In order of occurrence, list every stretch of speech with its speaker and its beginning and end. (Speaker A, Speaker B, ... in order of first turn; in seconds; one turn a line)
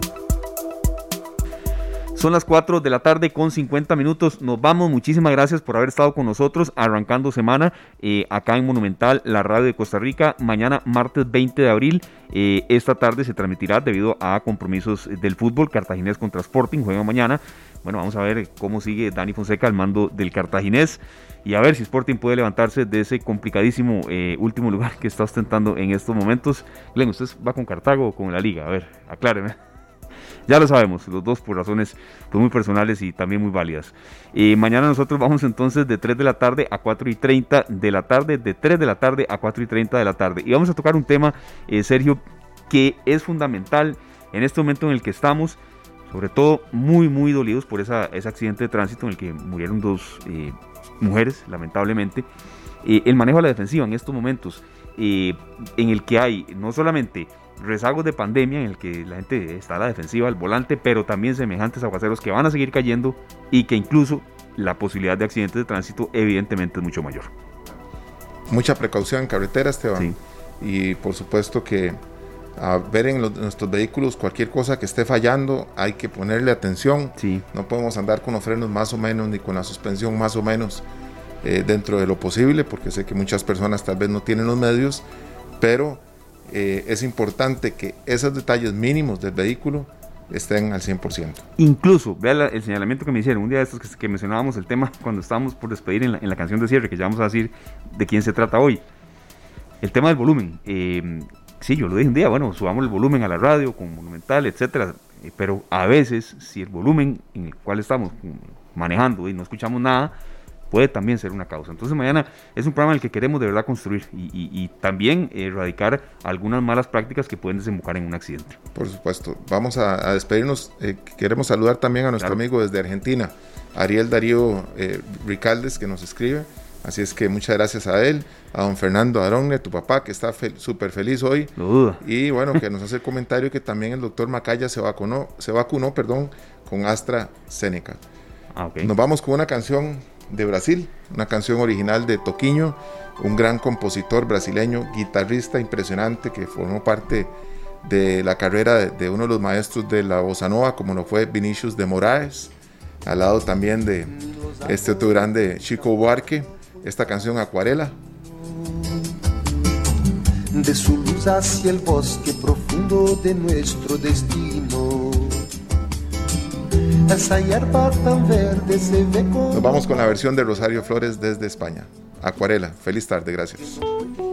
Speaker A: 2.1-29.6
Speaker A: 30.5-45.6
Speaker A: 46.1-52.3
Speaker A: 52.8-67.3
Speaker B: 68.5-72.0
Speaker B: 72.6-80.8
Speaker A: 77.2-77.4
Speaker B: 81.4-85.0
Speaker B: 85.6-91.5
Speaker A: 91.6-98.8
Speaker A: 99.8-110.2
Speaker A: 110.7-118.6
Speaker B: 118.7-138.0
Speaker A: 131.6-132.0
Speaker A: 138.6-138.9
Speaker B: 138.8-147.3
Speaker B: 147.8-152.5
Speaker B: 153.1-158.0
Speaker C: 154.1-155.8
Speaker C: 158.4-159.0
Speaker C: 160.5-165.4
Speaker C: 167.1-170.1
Speaker B: 169.5-173.8